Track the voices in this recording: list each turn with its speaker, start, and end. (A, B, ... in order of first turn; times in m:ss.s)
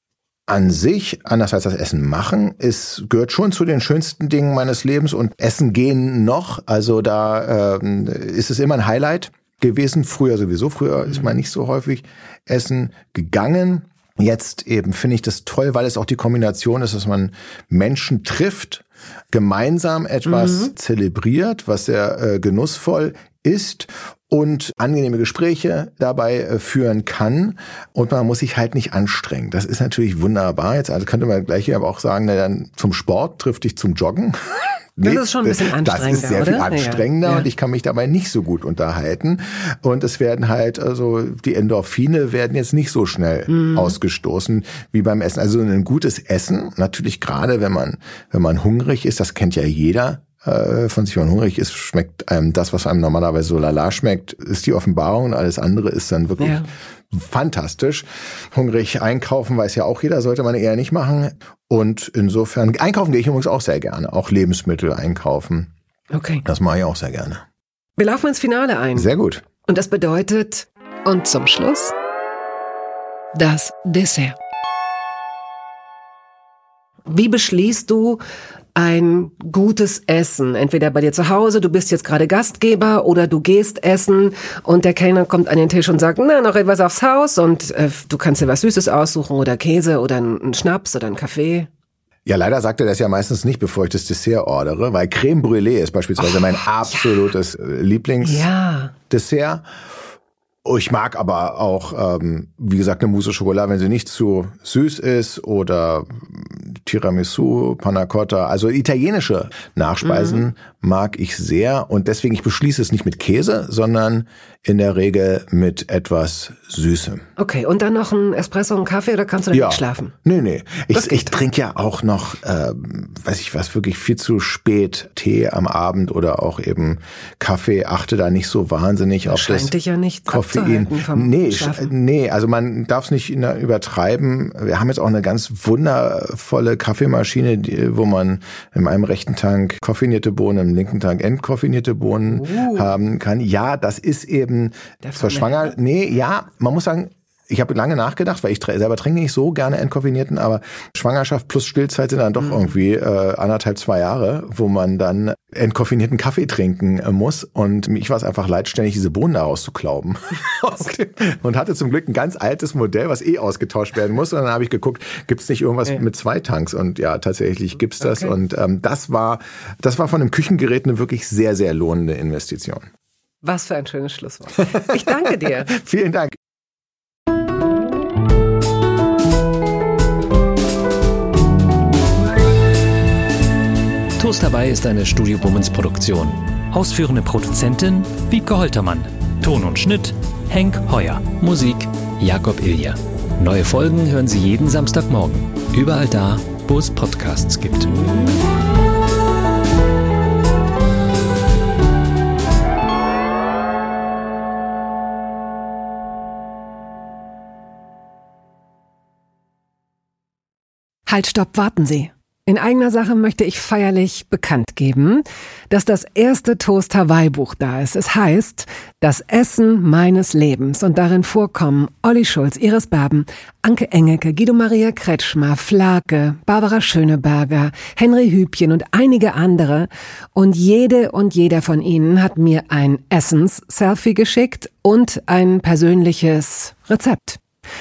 0:00.5-1:05.7 A
0:20.3-0:20.7 B
0:35.0-0:37.5 B
0:43.5-0:43.9 B
0:56.4-0:56.7 B
1:06.1-1:06.4 B
1:06.4-1:07.4 A
1:08.0-1:09.1 B
1:08.9-1:09.4 A
1:09.7-1:11.9 B
1:13.3-1:14.4 B
1:17.1-1:18.2 B
1:18.7-1:31.7 B
1:32.2-1:38.5 A
1:36.2-1:37.3 B
1:38.2-1:38.9 B
1:39.1-1:39.6 A
1:40.6-1:57.2 A
1:50.0-1:50.4 B
1:57.4-2:00.1 B
1:59.5-2:09.7 A
2:00.9-2:01.3 B
2:09.3-2:11.9 B
2:10.3-2:52.9 A
2:22.3-2:22.9 B
2:25.0-2:25.7 B
2:48.0-2:48.3 B
2:53.4-2:55.7 B
2:54.7-2:56.4 A
3:04.2-3:18.2 C
3:31.1-3:57.4 B